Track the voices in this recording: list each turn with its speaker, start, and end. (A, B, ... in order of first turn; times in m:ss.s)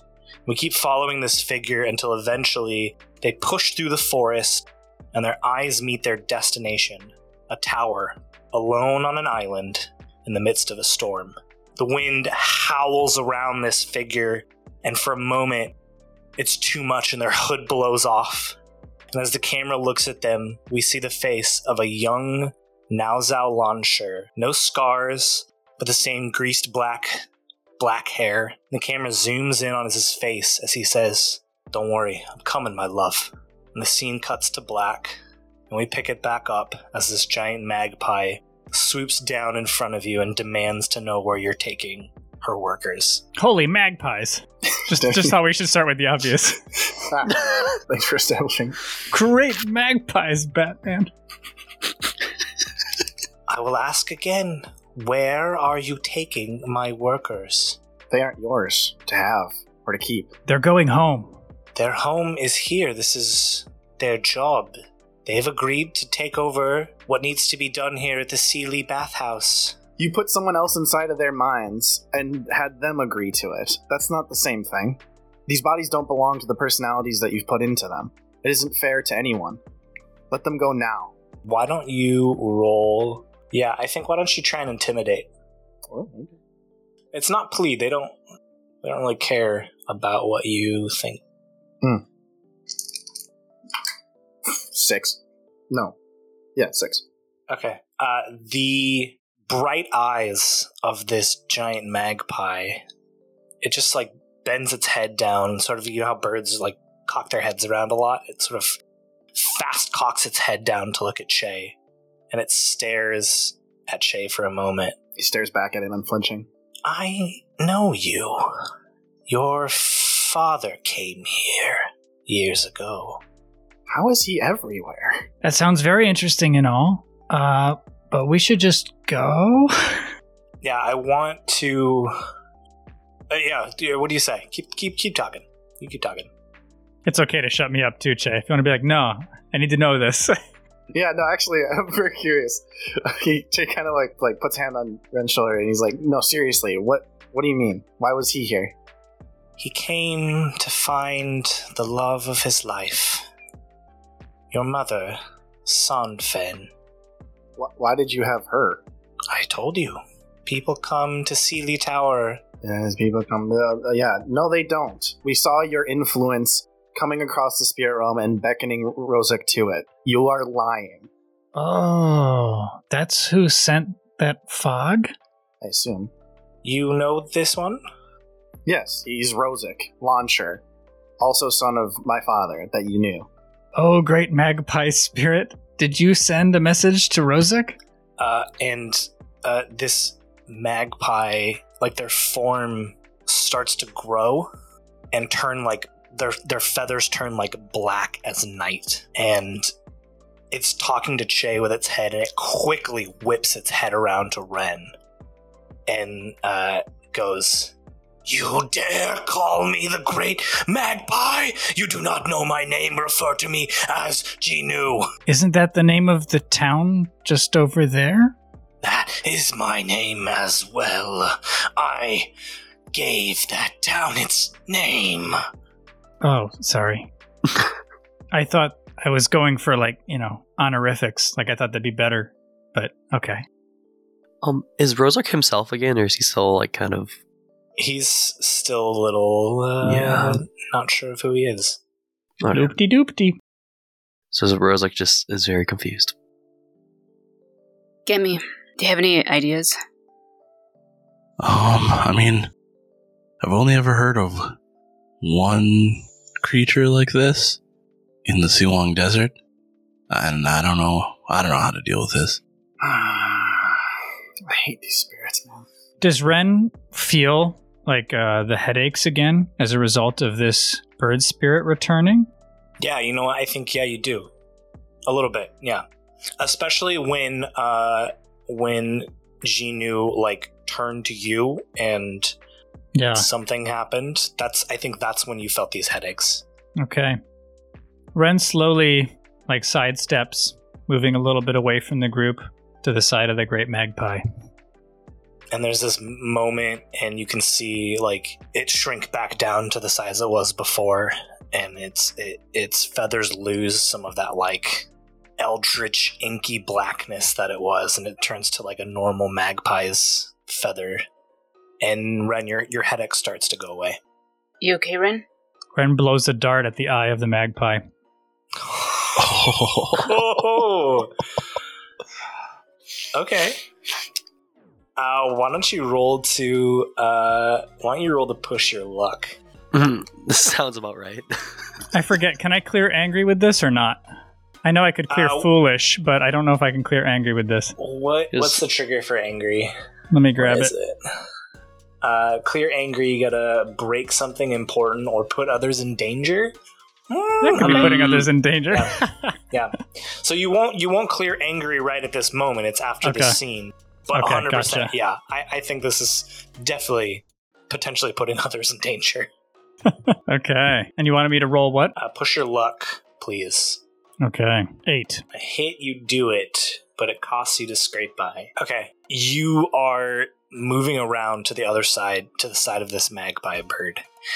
0:00.5-0:15.8 A
0:16.4-0:18.6 A
0:19.1-0:27.2 A
0:27.8-0:35.2 A
0:35.7-0:43.2 A
0:43.4-0:46.6 B
0:44.9-0:45.4 C
0:47.0-0:48.8 C
0:49.1-0:51.1 B
0:53.5-0:57.8 A
0:58.1-1:00.3 C
1:00.5-1:01.4 B
1:01.8-1:09.8 A
1:10.0-1:19.6 C
1:20.3-1:21.1 C
1:21.4-1:25.3 A
1:25.9-1:26.3 C
1:27.1-1:28.2 A
1:28.8-1:31.2 A
1:34.7-1:35.2 C
1:35.7-1:36.0 C
1:36.6-1:37.0 C
1:37.5-1:42.8 A
1:43.6-1:48.8 A
1:49.4-1:51.8 A
1:52.3-1:55.0 A
1:55.2-1:56.5 C
1:56.8-1:58.5 A
1:59.3-2:03.2 A
2:03.9-2:05.2 C
2:05.4-2:10.0 B
2:10.6-2:12.1 A
2:13.3-2:16.3 A
2:17.0-2:20.4 B
2:20.9-2:28.8 C
2:29.6-2:33.2 A
2:34.5-2:36.7 A
2:37.6-2:38.8 C
2:39.3-2:42.4 A
2:42.6-2:51.1 C
2:51.5-2:55.1 B
2:55.6-2:56.1 C
2:56.6-2:57.8 A
2:58.7-3:00.6 C
3:01.2-3:03.3 C
3:03.8-3:07.8 B
3:08.2-3:14.5 A
3:15.1-3:19.7 A
3:20.5-3:24.9 A
3:25.9-3:27.7 A
3:28.2-3:35.1 A
3:35.3-3:38.3 B
3:38.8-3:42.3 A
3:42.9-3:45.4 A
3:46.2-3:47.1 B
3:48.3-3:53.4 B
3:54.4-3:57.2 D
3:57.8-4:01.8 A
3:59.8-4:00.4 D
4:02.4-4:02.7 D
4:02.5-4:03.4 B
4:04.3-4:06.2 D
4:08.1-4:09.8 E
4:11.4-4:12.5 F
4:13.4-4:14.5 F
4:15.2-4:17.6 F
4:18.2-4:19.3 F
4:20.1-4:22.4 F
4:22.8-4:23.9 C
4:24.5-4:25.7 C
4:26.0-4:32.3 B
4:32.8-4:34.3 A
4:35.1-4:35.8 A
4:36.4-4:42.3 A
4:43.0-4:43.3 B
4:43.1-4:46.4 A
4:46.8-4:47.2 B
4:48.2-4:54.2 B
4:55.5-5:04.9 A
5:05.4-5:11.0 A
5:11.8-5:14.0 A
5:14.6-5:15.2 E
5:15.8-5:17.8 B
5:18.6-5:19.4 A
5:19.2-5:20.2 F
5:20.0-5:21.1 A
5:23.1-5:23.6 A
5:25.0-5:29.4 A
5:29.7-5:31.3 D
5:31.9-5:34.0 B
5:34.6-5:37.8 B
5:35.1-5:35.5 A
5:37.8-5:39.7 A
5:38.3-5:38.6 D
5:40.1-5:40.7 B
5:40.4-5:41.2 A
5:42.0-5:46.5 A
5:47.1-5:49.0 A
5:47.4-5:49.4 B
5:49.5-5:59.3 A
5:53.0-5:53.4 B
5:54.1-5:54.9 B
5:59.9-6:01.9 B
6:02.0-6:03.8 A
6:04.2-6:05.2 B
6:05.3-6:14.0 A